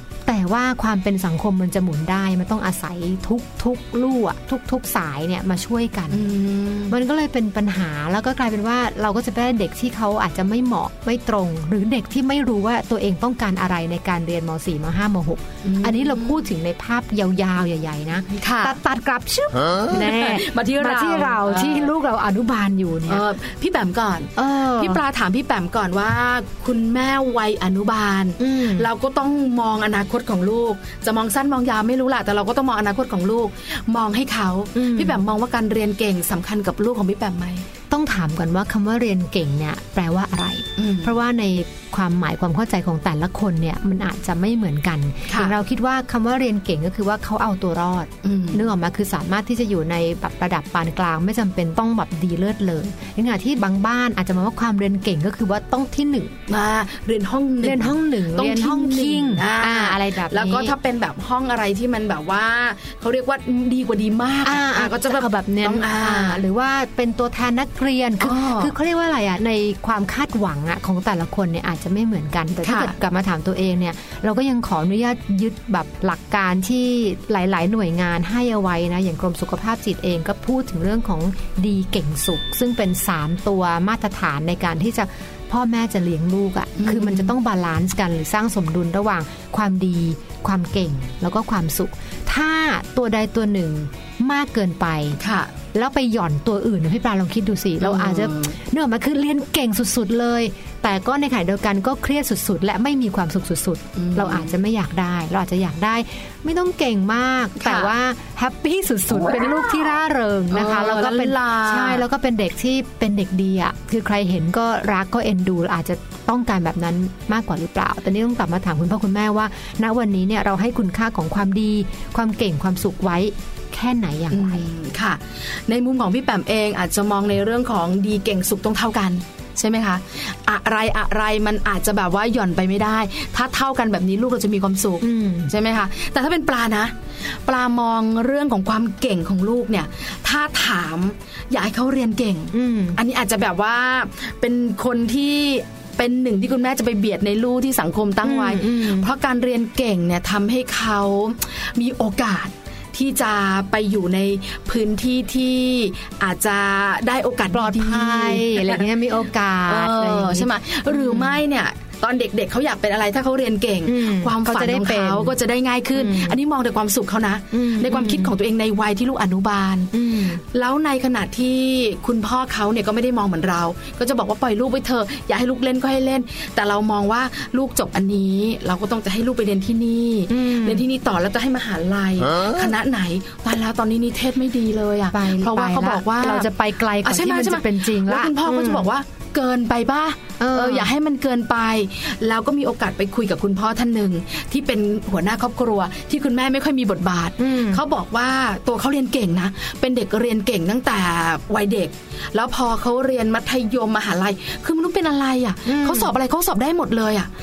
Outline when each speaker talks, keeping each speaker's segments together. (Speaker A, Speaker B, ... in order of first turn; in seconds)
Speaker A: 0.3-6.3, 6.9-23.2, 24.4-25.0, 28.4-28.9, 34.8-35.2, 37.9-56.4, 57.6-60.8, 64.5-95.2, 95.7-124.7, 135.0-135.5, 142.5-143.0, 148.2-149.1, 157.5-161.4, 163.9-165.4, 165.9-166.4, 167.5-168.3, 169.9-170.4, 180.3-180.9, 185.1-188.9, 190.4-190.9, 197.4-197.8, 205.7-206.1
Speaker B: 6.1-7.0, 15.6-16.4, 18.3-18.8, 19.9-21.9, 23.1-37.7, 40.8-41.1, 45.3-45.5, 48.2-48.7, 56.5-66.4, 68.2-68.7, 72.6-73.0, 86.8-87.3, 95.2-95.5, 97.8-98.5, 104.0-104.5, 107.6-107.9, 110.5-112.0, 124.3-158.9, 159.7-169.9, 170.5-186.5, 187.0-207.3